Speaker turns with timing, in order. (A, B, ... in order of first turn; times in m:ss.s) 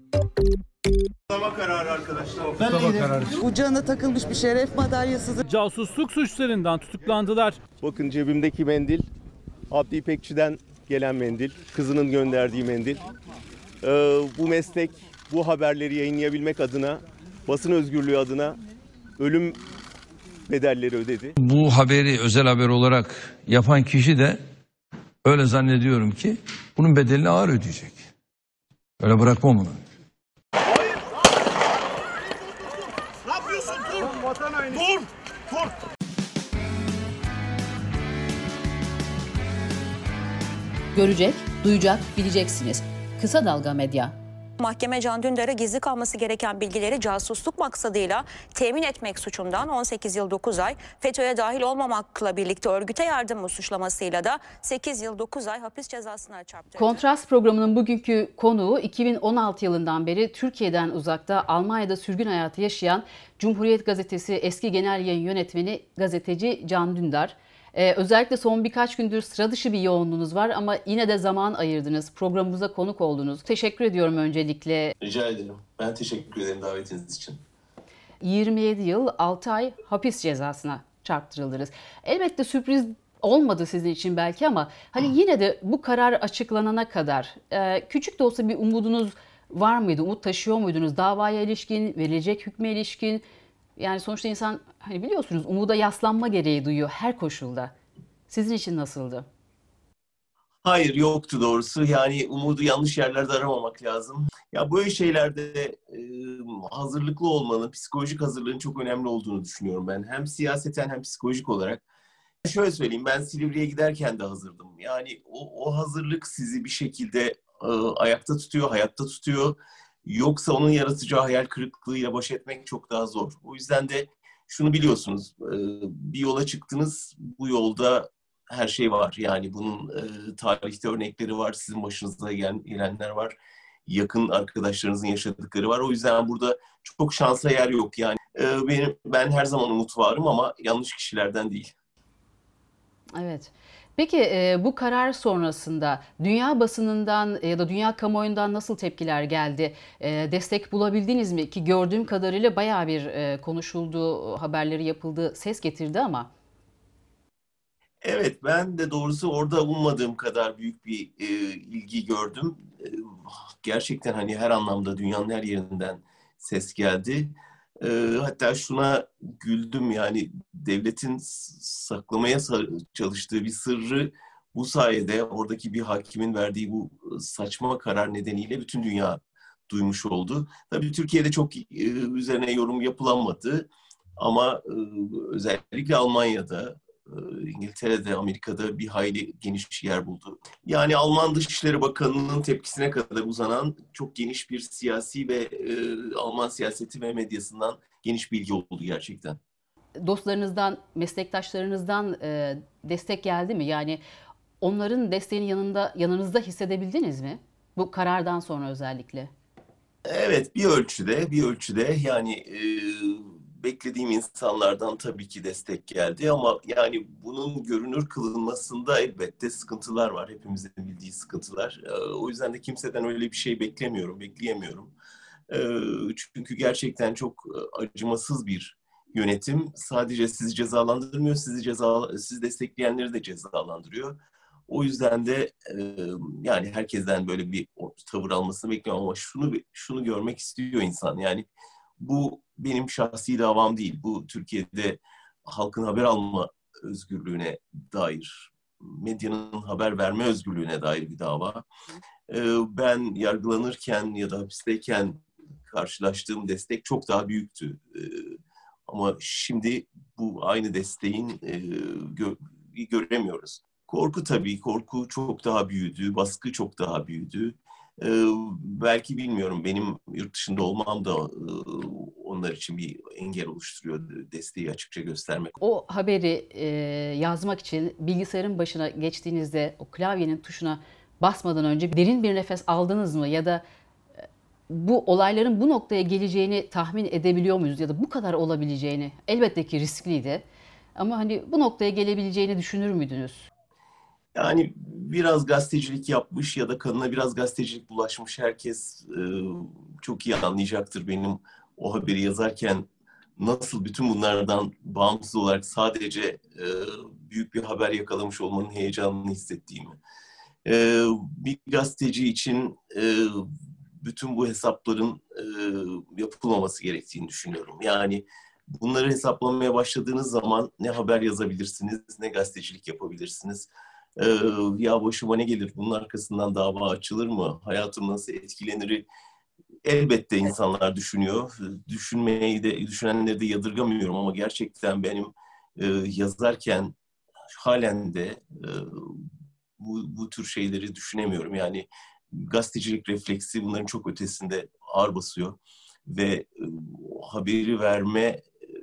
0:01.5-0:02.9 A
0:01.8-0:02.3 B
0:02.7-0:05.5 C
0:05.5-0:07.6 D
0:07.8-0:09.0 A
0:07.8-0:09.0 B
0:09.7-0:13.0 B
0:09.7-0:13.0 A
0:13.8-0:18.6 B
0:15.8-0:16.2 A
0:19.2-0:19.6 B
0:20.5-0:21.3 B
0:20.5-0:21.3 A
0:21.4-0:24.4 E
0:25.2-0:28.0 E
0:29.0-0:29.8 E
0:41.0-0:44.2 F
0:44.6-0:57.0 G
0:56.8-1:14.9 F
1:15.0-1:17.4 B
1:18.2-1:33.2 F
1:33.8-1:37.7 F
1:38.3-1:39.3 F
1:40.6-1:51.8 B
1:52.4-2:13.4 B
2:13.9-2:21.7 B
2:23.2-2:36.3 F
2:38.0-3:19.4 B
3:20.0-3:24.0 F
3:24.6-3:29.3 F
3:30.1-3:44.9 B
3:45.5-3:54.2 B
3:54.7-4:01.5 B
4:02.0-4:11.6 B
4:12.3-4:35.6 B
4:35.6-4:43.6 F
4:44.7-4:50.4 F
4:51.0-4:53.5 F
4:54.4-5:02.8 B
5:03.4-5:10.0 B
5:10.6-5:29.0 B
5:29.8-5:37.0 B
5:37.6-5:39.2 B
5:39.8-5:48.5 B